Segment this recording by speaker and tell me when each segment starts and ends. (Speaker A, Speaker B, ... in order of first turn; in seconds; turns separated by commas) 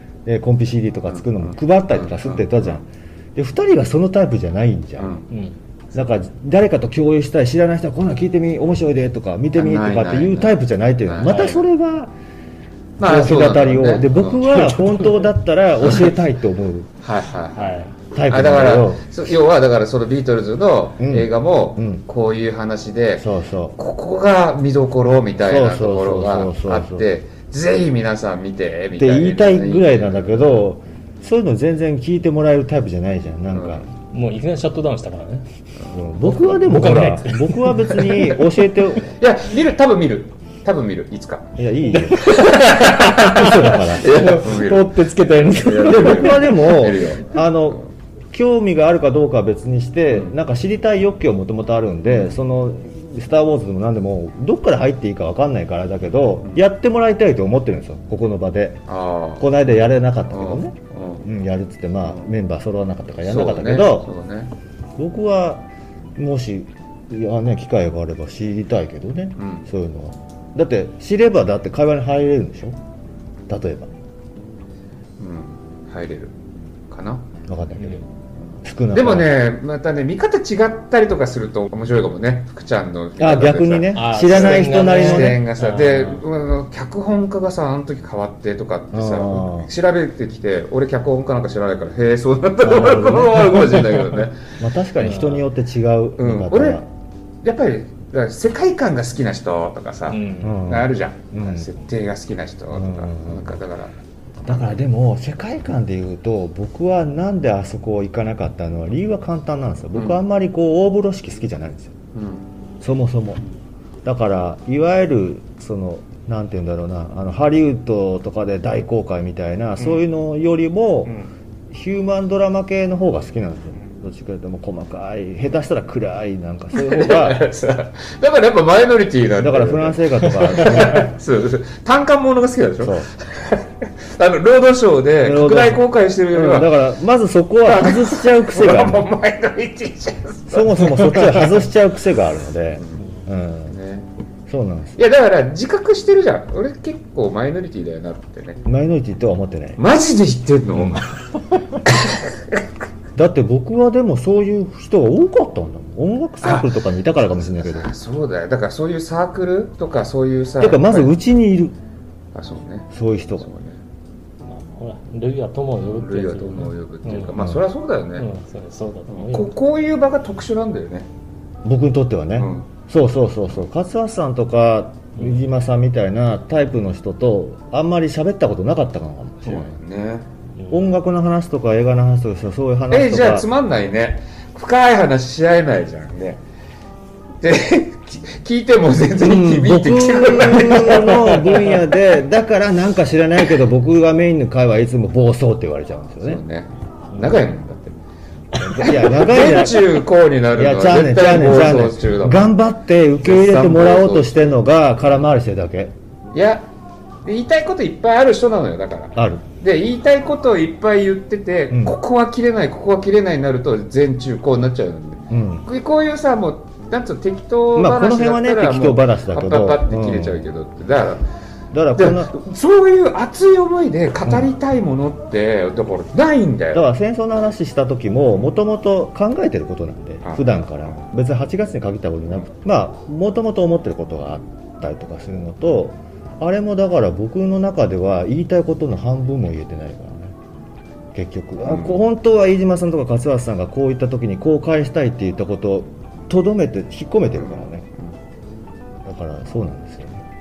Speaker A: 0.2-5.2, Speaker B: 1.1-2.8, Speaker B: 5.0-5.3, Speaker C: 5.3-5.5, Speaker A: 5.9-12.1, Speaker B: 9.6-11.5, Speaker C: 11.2-11.6, Speaker B: 13.0-14.7, Speaker A: 13.0-16.9, Speaker C: 14.7-15.2, Speaker B: 15.8-16.1, Speaker B: 17.0-30.6, Speaker C: 17.5-17.9, Speaker A: 18.1-19.0, Speaker A: 21.0-22.0, Speaker A: 23.2-23.8, Speaker A: 25.4-27.1, Speaker A: 29.0-33.9, Speaker B: 33.5-33.9, Speaker C: 34.1-35.5, Speaker B: 35.8-37.0, Speaker A: 35.9-39.1, Speaker C: 36.6-38.0, Speaker B: 37.9-38.4, Speaker B: 39.0-41.5, Speaker A: 41.5-42.3, Speaker C: 41.9-46.5, Speaker B: 42.2-47.9, Speaker A: 43.2-44.5, Speaker A: 45.7-47.8, Speaker A: 48.3-58.8, Speaker B: 52.1-52.4, Speaker B: 58.9-59.5, Speaker A: 59.4-64.1, Speaker B: 60.3-61.3, Speaker B: 63.2-64.5, Speaker A: 65.0-65.7, Speaker A: 66.2-72.8, Speaker B: 69.4-69.7, Speaker A: 73.5-73.9, Speaker B: 75.2-76.3, Speaker B: 76.9-77.2, Speaker A: 77.5-78.0, Speaker C: 77.8-78.0, Speaker A: 78.6-79.3, Speaker B: 78.9-94.4, Speaker A: 83.2-85.4, Speaker C: 83.9-86.2, Speaker A: 88.9-89.7, Speaker A: 92.6-93.6, Speaker C: 93.0-94.1, Speaker A: 94.6-96.8, Speaker C: 95.0-95.4, Speaker B: 96.2-96.8, Speaker B: 97.4-103.9, Speaker C: 100.1-100.6, Speaker A: 100.4-101.7, Speaker A: 102.7-103.6, Speaker A: 104.4-111.9, Speaker B: 109.9-110.2, Speaker B: 112.1-112.4, Speaker A: 112.8-113.4, Speaker A: 114.0-127.4, Speaker B: 126.7-136.8, Speaker A: 129.4-131.1, Speaker A: 132.8-133.1, Speaker A: 135.2-135.8, Speaker A: 136.3-139.1, Speaker B: 137.6-141.5, Speaker A: 140.5-143.7, Speaker B: 142.8-143.0, Speaker B: 143.7-144.1, Speaker A: 144.5-145.0, Speaker B: 144.9-148.6, Speaker A: 148.6-149.8, Speaker B: 149.8-152.6, Speaker A: 150.7-151.0, Speaker A: 153.2-157.9, Speaker B: 156.4-161.1, Speaker A: 160.6-161.7, Speaker B: 162.3-163.8, Speaker A: 162.9-163.5, Speaker C: 164.4-167.4, Speaker B: 165.8-168.3, Speaker A: 167.4-167.6, Speaker C: 168.1-169.6, Speaker B: 169.1-171.1, Speaker A: 171.6-179.8, Speaker B: 172.3-172.7, Speaker C: 175.2-175.4, Speaker B: 179.4-180.2, Speaker C: 180.6-180.8, Speaker A: 180.7-183.5, Speaker B: 182.9-186.4, Speaker B: 187.4-191.4, Speaker A: 189.2-196.4, Speaker C: 190.9-191.6, Speaker B: 196.2-197.9, Speaker C: 197.1-197.4, Speaker C: 198.5-199.2, Speaker A: 198.6-200.0, Speaker B: 199.0-202.5, Speaker A: 200.6-205.9, Speaker B: 203.2-204.5, Speaker B: 206.3-206.7, Speaker B: 207.2-221.2, Speaker A: 209.2-209.5, Speaker A: 211.7-212.0, Speaker A: 215.3-215.7, Speaker A: 217.7-220.5, Speaker A: 221.7-222.4, Speaker B: 221.9-226.8, Speaker A: 226.7-240.3, Speaker B: 230.2-231.0, Speaker A: 241.1-247.8, Speaker B: 241.6-242.0, Speaker B: 247.4-248.1, Speaker A: 249.0-250.2